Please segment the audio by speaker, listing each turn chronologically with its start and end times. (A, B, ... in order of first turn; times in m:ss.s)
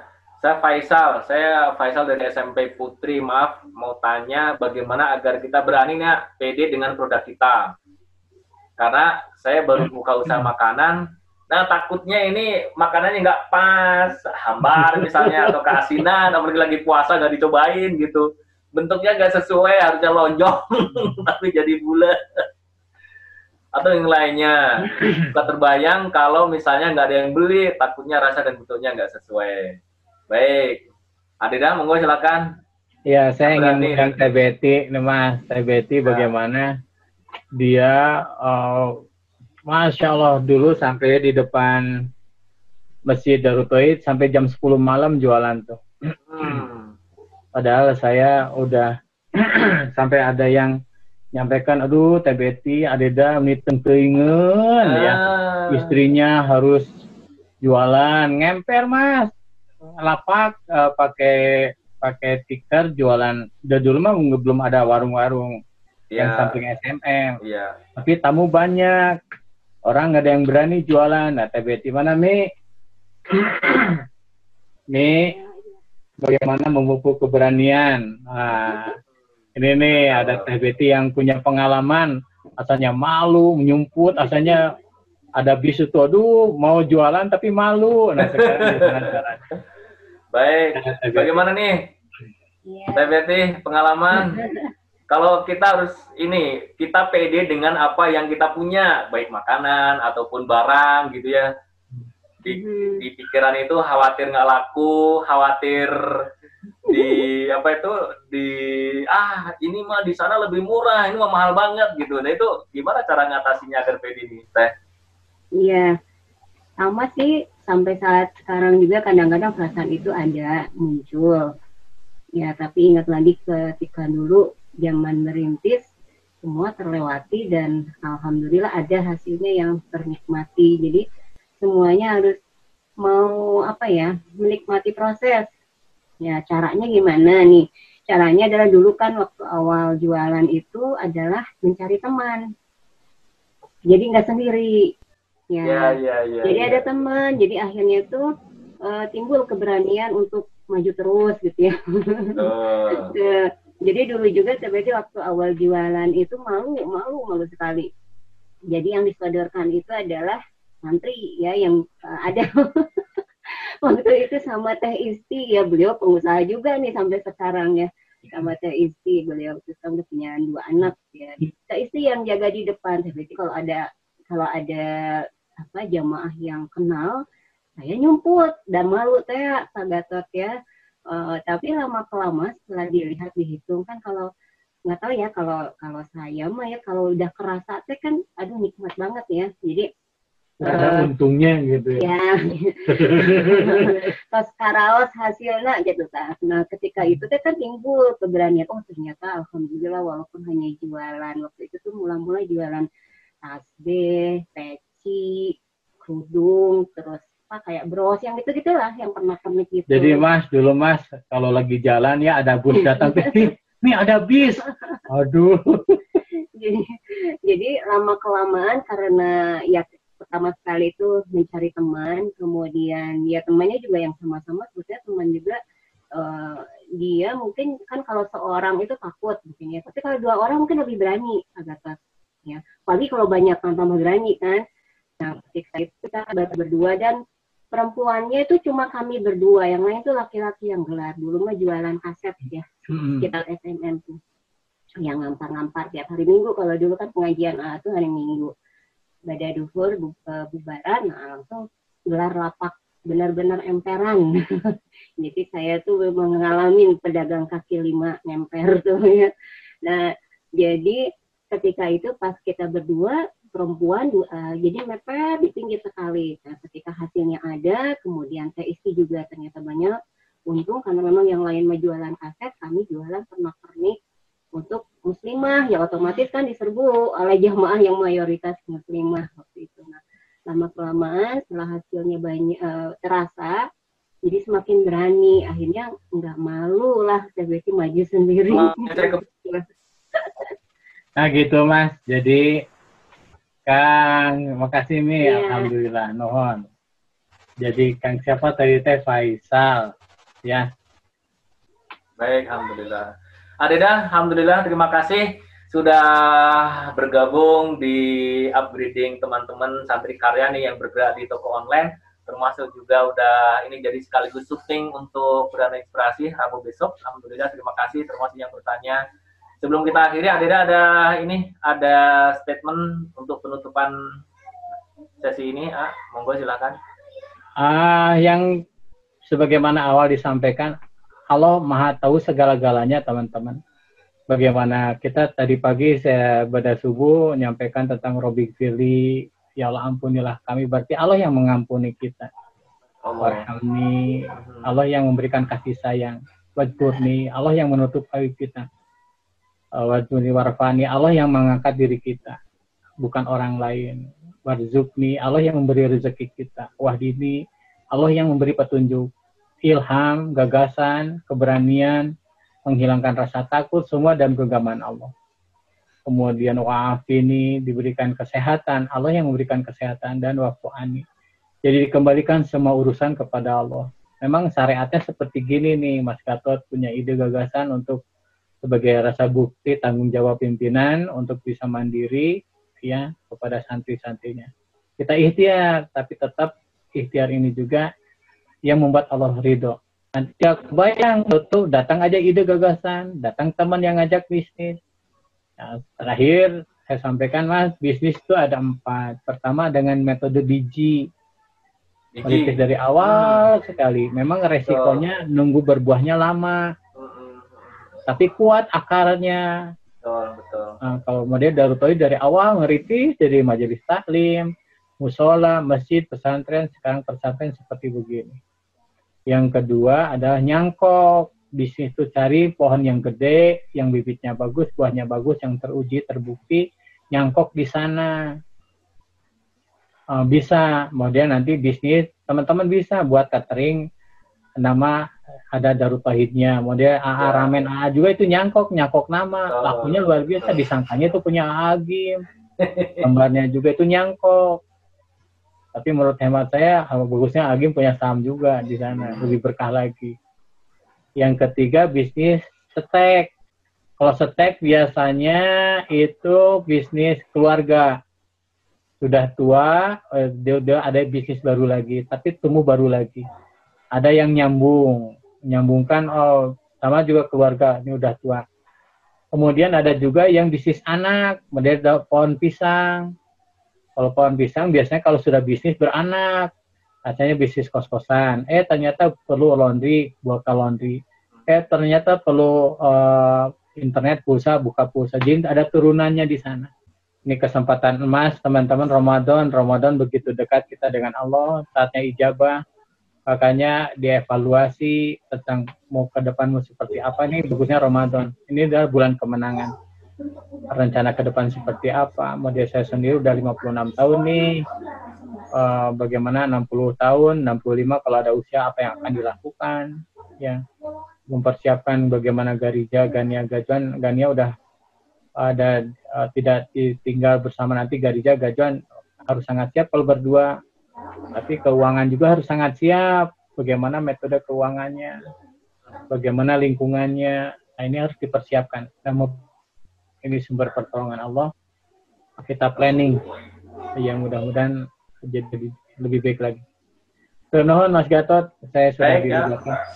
0:00.4-0:07.7 A
0:08.8-0:11.0 A
0:11.5-0:22.2 A
0:14.6-0:15.8 B
0:23.7-0:29.8 A
0:25.0-0:25.2 B
0:30.3-0:30.8 A
0:31.4-0:32.4 A
0:33.1-0:36.7 B
0:33.4-0:34.2 A
0:36.0-0:36.3 A
0:37.6-0:38.9 B
0:39.7-0:41.8 B
0:43.1-0:45.8 B
0:46.3-0:46.9 A
0:47.6-0:50.7 B
0:51.3-0:55.2 B
0:54.9-0:55.9 A
0:55.7-0:56.8 B
0:57.6-0:59.3 B
1:00.0-1:01.4 B
1:02.0-1:05.5 B
1:06.1-1:06.6 A
1:06.2-1:07.4 B
1:07.4-1:07.7 A
1:08.0-1:09.0 B
1:09.9-1:12.4 B
1:13.3-1:14.0 B
1:14.9-1:15.3 B
1:16.2-1:18.9 B
1:19.6-1:24.6 B
1:19.9-1:20.5 A
1:25.4-1:29.4 B
1:28.2-1:29.2 A
1:30.3-1:31.7 A
1:30.7-1:31.3 B
1:32.6-1:33.2 C
1:33.0-1:34.4 A
1:34.1-1:34.6 C
1:35.1-1:41.5 A
1:42.4-1:46.0 A
1:42.5-1:43.0 C
1:46.9-1:54.7 A
1:55.6-1:55.9 C
1:56.8-2:01.4 C
2:02.4-2:05.8 C
2:06.4-2:11.0 C
2:11.6-2:12.4 C
2:13.0-2:15.5 C
2:16.2-2:22.4 C
2:23.9-2:24.7 C
2:25.5-2:28.2 C
2:25.6-2:26.8 A
2:28.8-2:32.4 C
2:32.4-2:33.1 A
2:32.9-2:33.3 C
2:33.8-2:37.9 C
2:38.7-2:43.2 C
2:43.8-2:54.8 C
2:55.6-2:57.2 C
2:57.8-3:00.5 C
3:01.1-3:04.3 C
3:04.9-3:09.9 C
3:10.6-3:12.1 B
3:10.6-3:11.1 C
3:12.0-3:22.8 C
3:13.0-3:14.0 B
3:23.4-3:30.2 C
3:29.9-3:35.8 B
3:32.8-3:33.4 C
3:34.6-3:35.0 C
3:36.6-3:36.9 C
3:37.5-3:45.6 C
3:46.2-3:54.6 C
3:55.2-3:57.2 C
3:57.7-4:04.2 C
4:02.9-4:03.3 B
4:05.0-4:08.5 C
4:09.3-4:14.3 C
4:15.2-4:19.3 C
4:20.6-4:21.0 C
4:21.5-4:29.9 C
4:30.5-4:33.9 C
4:34.6-4:43.6 C
4:44.2-4:49.6 C
4:48.5-4:49.2 A
4:50.2-4:50.5 C
4:51.2-4:52.4 B
4:53.7-4:56.6 B
4:55.2-4:55.7 C
4:57.6-4:59.9 B
5:02.2-5:03.1 A
5:03.6-5:19.0 A
5:19.6-5:23.9 A
5:25.2-5:26.8 A
5:27.6-5:28.4 B
5:29.3-5:30.7 B
5:31.3-5:33.6 B
5:34.3-5:39.0 B
5:39.6-5:42.3 B
5:43.0-5:43.4 A
5:43.2-5:48.6 B
5:44.4-5:44.7 A
5:49.8-5:52.4 B
5:53.0-5:57.3 B
5:57.9-5:59.0 B
5:59.7-6:02.0 B
6:02.7-6:05.1 B
6:06.1-6:11.0 B
6:11.6-6:18.0 B
6:18.6-6:22.3 B
6:22.8-6:27.8 B
6:28.7-6:34.7 B
6:35.6-6:41.0 B
6:42.1-6:43.5 A
6:42.2-6:46.6 B
6:44.7-6:45.0 A
6:47.0-6:47.9 A
6:48.1-6:49.4 B
6:50.0-6:50.7 A
6:50.8-6:54.5 B
6:55.0-6:58.4 B
6:59.3-7:08.1 B
7:10.1-7:13.8 B
7:14.6-7:14.9 B
7:15.5-7:22.1 B
7:17.2-7:17.6 A
7:19.5-7:20.6 A
7:22.6-7:23.1 A
7:23.0-7:24.4 B
7:25.7-7:30.1 B
7:28.9-7:29.2 A
7:31.2-7:33.3 B
7:34.0-7:37.9 B
7:39.0-7:43.2 B
7:43.9-7:48.4 B
7:49.3-7:53.0 B
7:54.0-7:56.5 B
7:57.1-8:06.7 B
8:07.3-8:12.5 B
8:13.3-8:19.7 B
8:20.7-8:24.6 B
8:25.6-8:29.9 B
8:31.3-8:34.5 B
8:35.4-8:38.8 B
8:39.3-8:40.5 B
8:41.3-8:45.2 B
8:46.1-8:49.3 B
8:50.2-8:51.5 B
8:52.4-8:53.2 B
8:54.0-8:54.7 B
8:55.2-8:56.6 B
8:57.5-8:59.7 B
8:59.0-8:59.5 A